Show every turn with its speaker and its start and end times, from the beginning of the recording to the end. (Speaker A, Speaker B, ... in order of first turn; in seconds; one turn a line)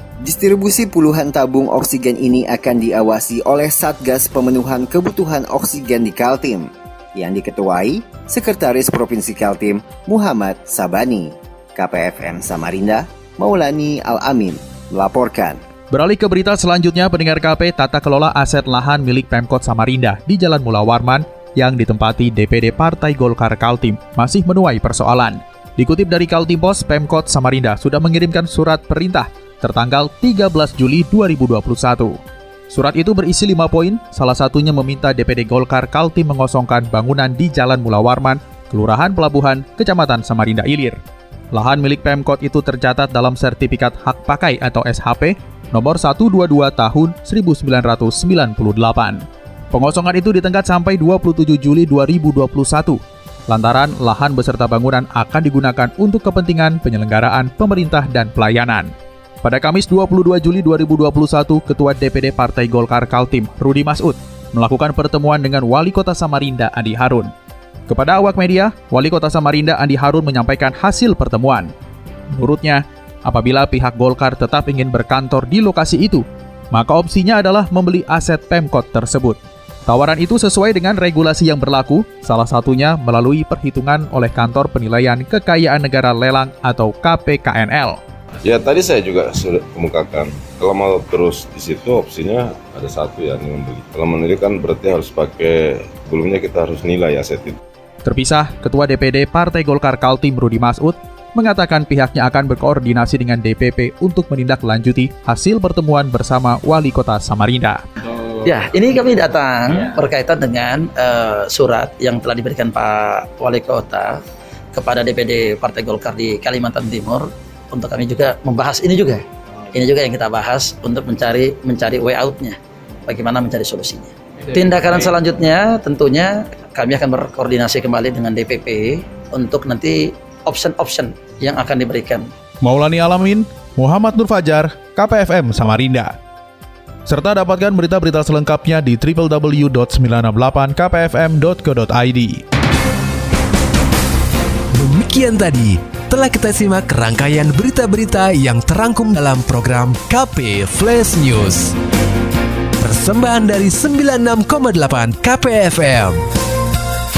Speaker A: 0.2-15.6
Speaker B: 15.9-32.2
Speaker B: 32.7-41.0
Speaker B: 41.5-49.2
Speaker B: 49.7-53.0
Speaker B: 53.5-58.9
Speaker B: 59.4-67.3
Speaker B: 67.9-71.7
Speaker B: 72.3-88.0
Speaker C: 88.4-97.6
Speaker B: 98.0-107.8
Speaker D: 108.5-114.1
Speaker D: 114.7-119.2
Speaker D: 119.8-122.6
Speaker D: 123.1-132.2
Speaker B: 132.6-136.1
Speaker B: 137.1-142.4
Speaker E: 144.7-151.7
Speaker E: 152.8-156.2